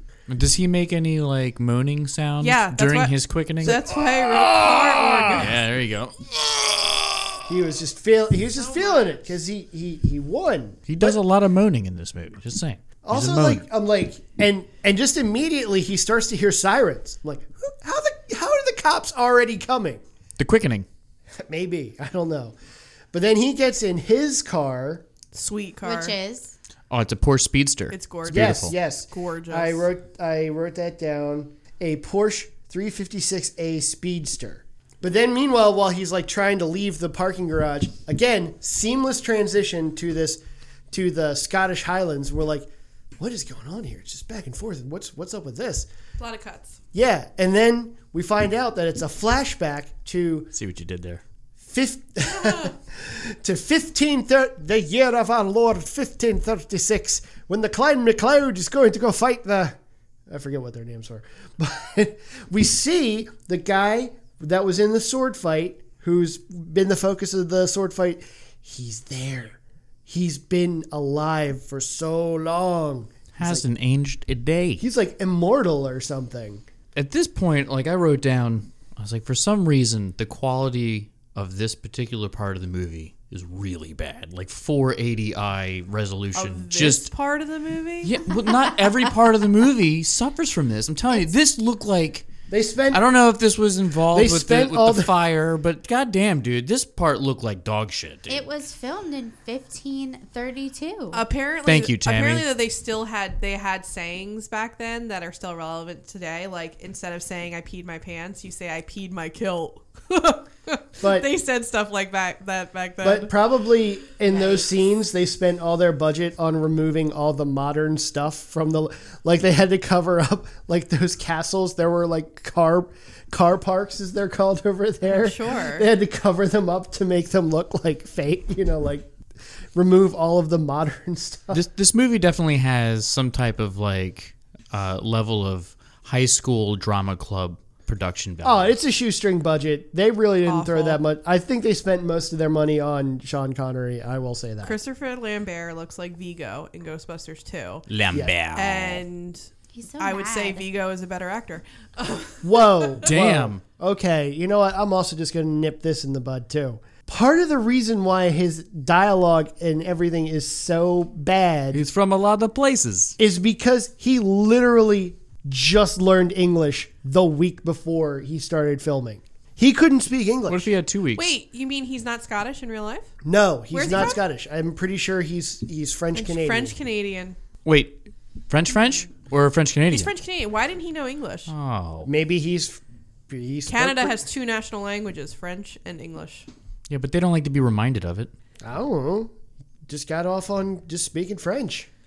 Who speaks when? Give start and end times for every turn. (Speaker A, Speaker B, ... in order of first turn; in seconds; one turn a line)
Speaker A: 0.3-3.8
Speaker B: 2.4-5.5
Speaker C: 3.6-5.5
Speaker A: 5.3-7.4
Speaker C: 7.5-11.2
Speaker B: 8.5-9.2
Speaker A: 10.9-13.6
Speaker C: 13.0-20.0
Speaker A: 20.4-20.9
Speaker C: 21.4-22.5
Speaker C: 23.1-25.0
Speaker B: 25.3-26.1
Speaker D: 25.8-26.5
Speaker A: 26.9-28.7
Speaker B: 27.9-29.9
Speaker C: 28.3-40.4
Speaker C: 40.9-45.9
Speaker B: 46.2-46.8
Speaker C: 46.9-50.5
Speaker A: 50.5-51.2
Speaker C: 51.6-59.8
Speaker B: 52.3-52.7
Speaker C: 60.3-73.6
Speaker A: 73.4-74.8
Speaker C: 74.8-76.6
Speaker A: 77.0-87.1
Speaker B: 86.3-88.2
Speaker A: 88.0-92.3
Speaker C: 92.5-93.0
Speaker A: 92.9-98.5
Speaker C: 94.1-95.2
Speaker D: 98.3-101.2
Speaker B: 101.1-113.3
Speaker A: 101.7-102.5
Speaker C: 111.0-111.3
Speaker C: 113.0-129.1
Speaker B: 114.3-114.6
Speaker B: 125.0-125.9
Speaker C: 129.8-131.7
Speaker A: 131.5-138.7
Speaker C: 138.4-144.8
Speaker B: 140.4-141.0
Speaker B: 144.6-147.9
Speaker A: 147.9-149.0
Speaker C: 148.1-148.4
Speaker B: 148.5-149.5
Speaker D: 149.7-150.6
Speaker B: 150.0-153.1
Speaker C: 152.4-161.8
Speaker A: 153.0-153.6
Speaker A: 161.7-163.1
Speaker C: 163.2-170.7
Speaker A: 170.5-171.3
Speaker B: 171.1-173.1
Speaker C: 173.2-176.8
Speaker B: 173.7-174.2
Speaker B: 176.1-177.4
Speaker A: 177.6-180.1
Speaker B: 179.9-181.5
Speaker A: 181.5-182.1
Speaker C: 182.0-184.2
Speaker B: 183.7-186.5
Speaker A: 186.9-188.3
Speaker C: 188.6-189.3
Speaker C: 189.9-191.9